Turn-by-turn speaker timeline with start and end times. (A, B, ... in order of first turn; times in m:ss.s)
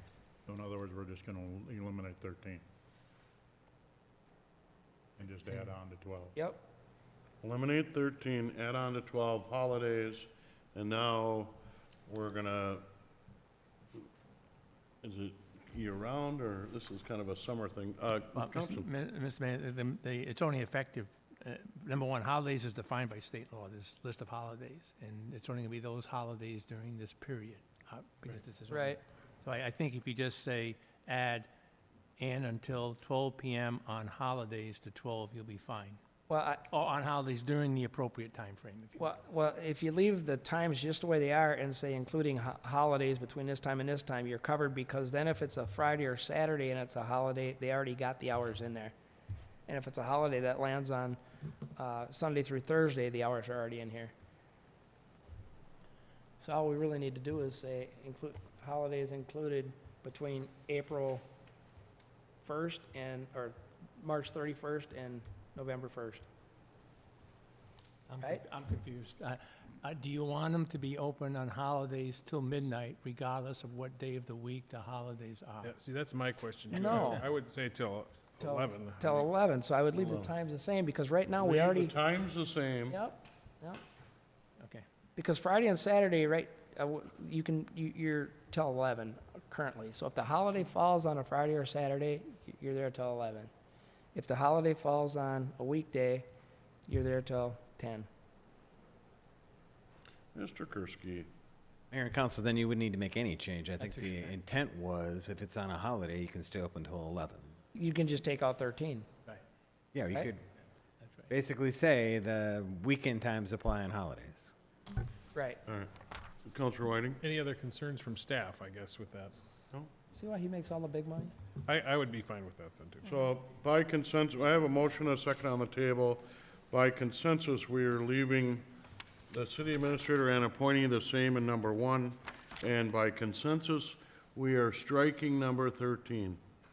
0:00.5-0:02.6 A
0:05.2-0:06.3 A
0:06.4-0:06.6 B
0:07.4-0:12.8 C
0:15.0-0:18.9 C
0:18.3-0:31.5 D
0:28.7-0:29.0 B
0:32.2-0:36.0 D
0:36.3-0:36.6 B
0:36.7-0:39.1 D
0:39.0-0:48.9 B
0:49.7-0:51.2 B
0:51.8-0:54.1 B
0:56.4-1:01.2 B
1:02.4-1:06.2 B
1:08.1-1:15.7 D
1:15.6-1:19.3 E
1:16.7-1:17.2 B
1:18.4-1:21.9 B
1:19.9-1:20.3 C
1:21.4-1:23.0 C
1:22.9-1:23.8 B
1:24.6-1:24.8 D
1:25.2-1:33.5 B
1:34.1-1:36.2 B
1:36.9-1:38.1 B
1:40.3-1:41.3 C
1:41.9-1:47.5 F
1:43.8-1:44.3 D
1:47.7-1:49.0 B
1:49.9-1:50.4 F
1:51.0-1:51.3 D
1:51.3-1:54.5 F
1:55.3-1:55.6 B
1:55.6-1:55.9 C
1:56.4-1:57.2 C
1:57.2-1:59.5 E
2:00.1-2:01.3 B
2:01.6-2:03.1 E
2:03.1-2:08.7 C
2:09.3-2:16.4 C